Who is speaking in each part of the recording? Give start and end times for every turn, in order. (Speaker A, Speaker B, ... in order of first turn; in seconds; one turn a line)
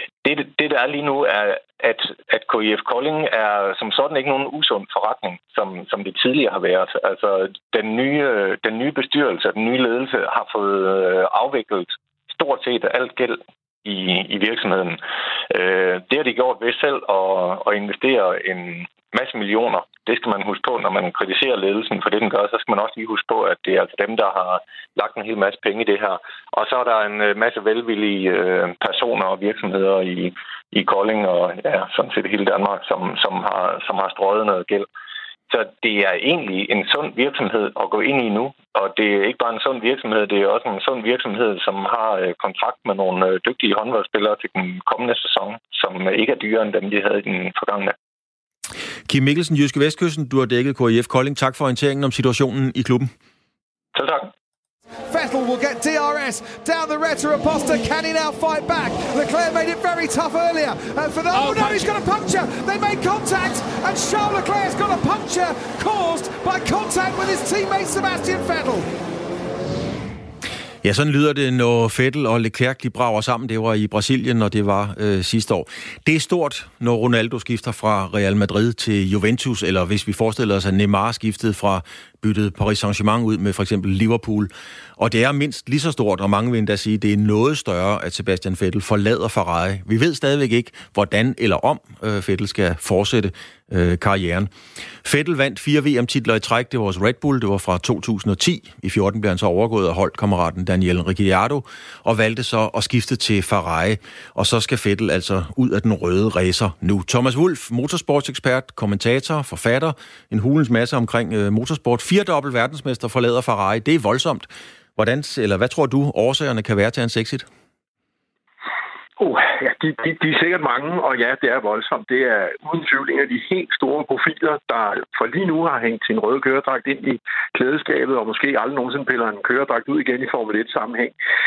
Speaker A: 0.2-34.9
Speaker A: 35.5-48.0
Speaker B: 49.1-53.1
Speaker A: 54.0-54.3
Speaker C: 55.1-68.9
Speaker B: 70.8-94.5
Speaker B: 95.0-117.5
Speaker D: 119.2-131.1